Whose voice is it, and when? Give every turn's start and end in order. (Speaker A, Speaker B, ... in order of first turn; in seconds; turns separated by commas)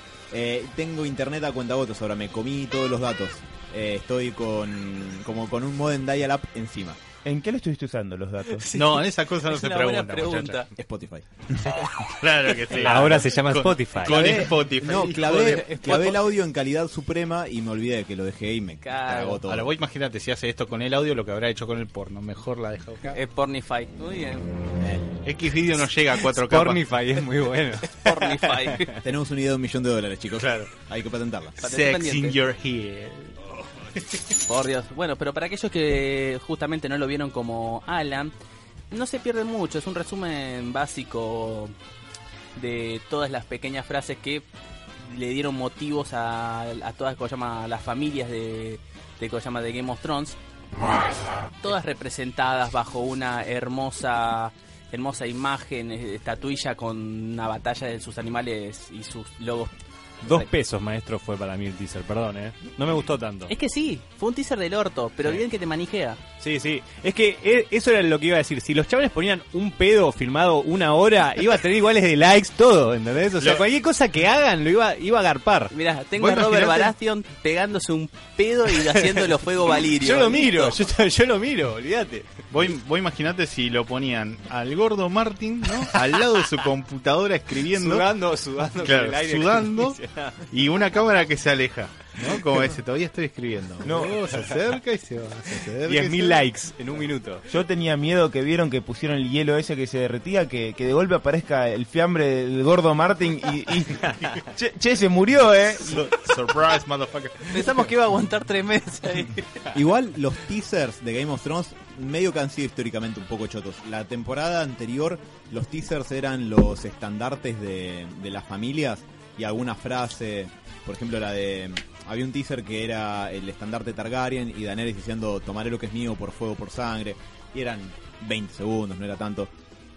Speaker A: 0.3-7.0, Speaker B: 7.2-8.7, Speaker C: 8.5-8.9, Speaker D: 8.7-10.7, Speaker C: 9.5-10.7, Speaker A: 10.8-11.3, Speaker D: 11.7-15.8, Speaker E: 12.8-14.5, Speaker A: 14.1-19.7, Speaker C: 15.5-16.2, Speaker C: 18.8-19.4, Speaker D: 19.5-23.2, Speaker C: 23.1-24.5, Speaker A: 24.8-25.1, Speaker D: 25.2-26.9, Speaker E: 26.3-28.9, Speaker C: 28.0-28.9, Speaker A: 29.0-31.6, Speaker D: 30.4-30.7, Speaker C: 31.6-32.4, Speaker D: 31.6-34.2, Speaker C: 34.5-38.3, Speaker C: 38.9-41.8, Speaker C: 42.6-44.5, Speaker C: 45.0-50.4, Speaker C: 51.6-59.7, Speaker E: 60.2-63.5, Speaker C: 63.5-66.2, Speaker E: 66.4-75.7, Speaker C: 75.7-80.8, Speaker D: 76.2-76.9, Speaker E: 79.0-82.4, Speaker D: 82.5-88.1, Speaker E: 85.8-86.1, Speaker E: 87.7-90.4, Speaker D: 88.8-90.0, Speaker D: 90.5-96.4, Speaker B: 93.8-94.2, Speaker E: 95.8-97.5, Speaker B: 97.5-106.1, Speaker D: 105.9-107.6, Speaker C: 107.5-109.7, Speaker A: 109.7-129.5